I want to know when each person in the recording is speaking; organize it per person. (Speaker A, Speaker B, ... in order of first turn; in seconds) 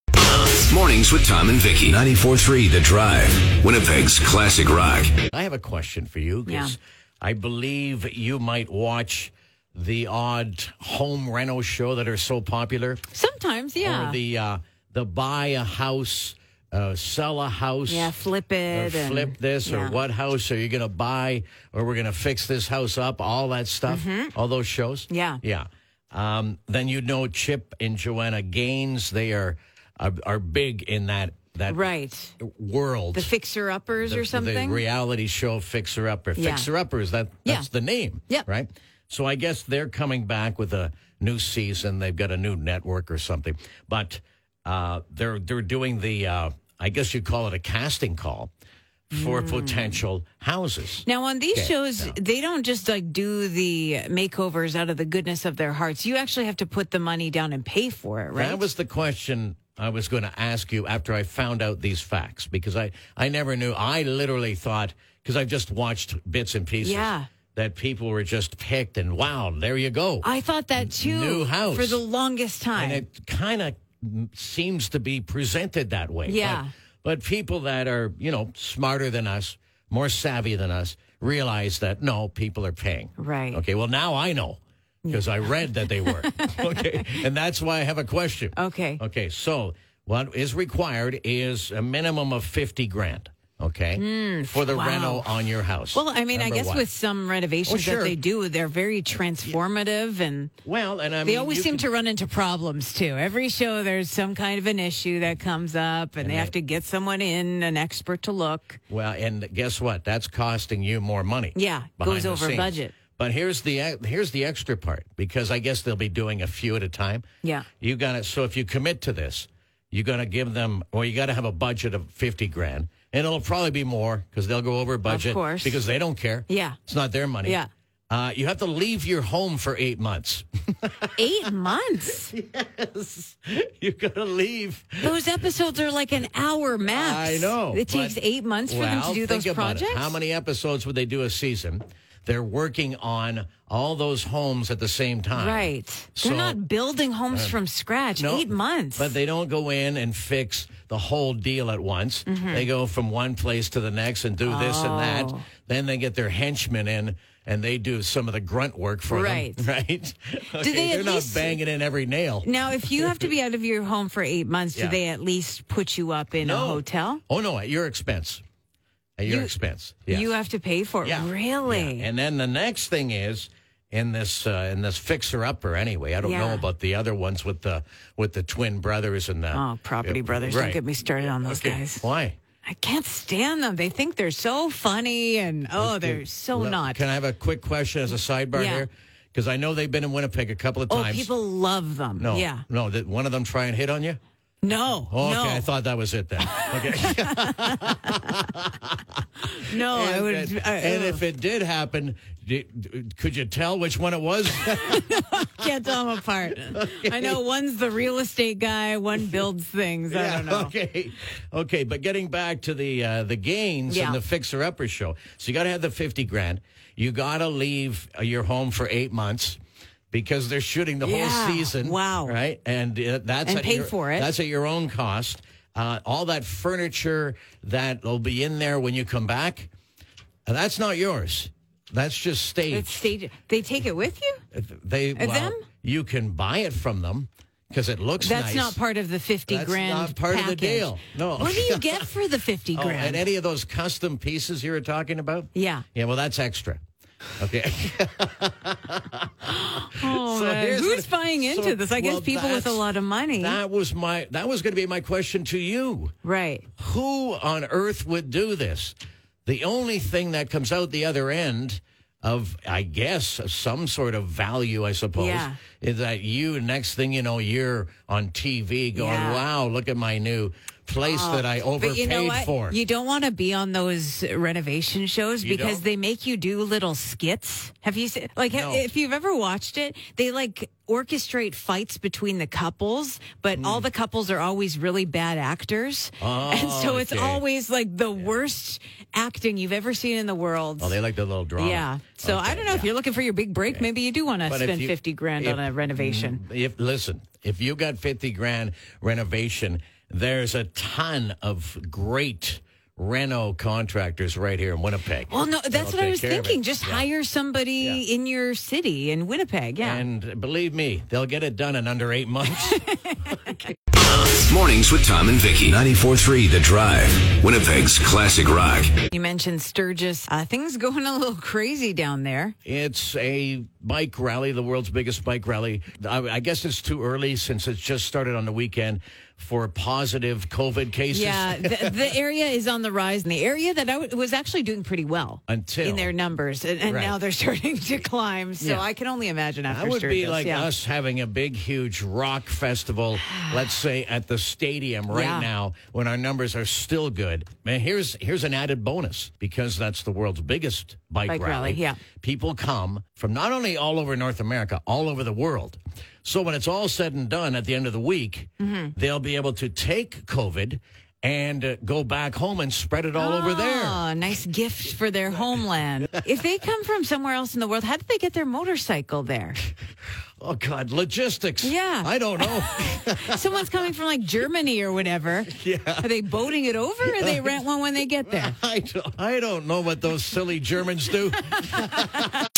Speaker A: 0.4-5.1, 313.9-318.9
Speaker B: 5.1-13.0, 13.8-18.1, 18.7-33.3, 34.0-48.5, 49.1-52.2, 58.3-72.0, 72.7-96.9, 97.7-98.2, 100.6-101.9, 106.2-106.5, 108.9-117.2, 117.8-131.1, 132.3-135.2, 136.9-146.6, 147.3-147.6, 148.2-163.3, 166.4-168.4, 169.2-170.3, 171.0-182.4, 185.8-191.3, 192.2-194.2, 195.1-199.0, 199.6-205.2, 206.7-207.4, 210.1-219.6, 220.1-229.7, 230.4-233.1, 234.5-238.8, 239.5-242.0, 242.7-246.8, 247.4-252.8, 253.3-256.1, 256.8-258.9, 259.4-272.8, 275.4-275.8, 278.5-278.9, 283.6-283.9, 286.2-287.4, 290.8-292.9, 294.5-307.1, 309.8-313.7, 322.6-332.0, 335.5-336.1, 336.8-337.2, 338.6-338.9, 339.7-364.0, 370.4-373.5, 375.5-376.1, 377.0-377.5, 378.3-382.3
Speaker C: 6.5-6.7, 13.1-14.2, 17.9-20.0, 23.9-24.3, 25.1-25.4, 31.7-32.3, 33.1-34.8, 36.4-36.7, 49.1-50.0, 51.0-58.6, 66.8-67.3, 70.2-73.0, 76.2-76.7, 83.2-83.6, 85.0-87.0, 88.5-89.0, 93.9-95.3, 95.9-100.5, 101.2-108.8, 111.5-112.9, 125.0-125.8, 126.5-126.8, 127.4-127.7, 131.2-132.3, 135.0-140.2, 145.3-149.2, 152.3-152.7, 154.4-155.4, 159.1-159.7, 160.6-161.6, 162.4-167.2, 169.2-169.5, 170.1-172.1, 176.2-176.7, 179.5-182.0, 182.6-187.0, 188.5-188.9, 190.9-192.6, 194.6-195.7, 196.4-198.4, 199.5-201.2, 204.6-210.7, 213.9-214.2, 221.0-222.3, 223.4-224.3, 232.7-234.4, 235.1-235.6, 238.2-243.2, 245.5-245.8, 249.4-253.6, 256.2-256.7, 265.1-265.6, 268.9-269.4, 271.0-291.0, 291.6-296.4, 305.3-310.1, 312.5-313.7, 319.1-322.5, 331.1-340.7, 343.2-343.6, 345.1-345.5, 351.2-352.0, 358.6-358.9, 363.1-369.6, 371.6-378.6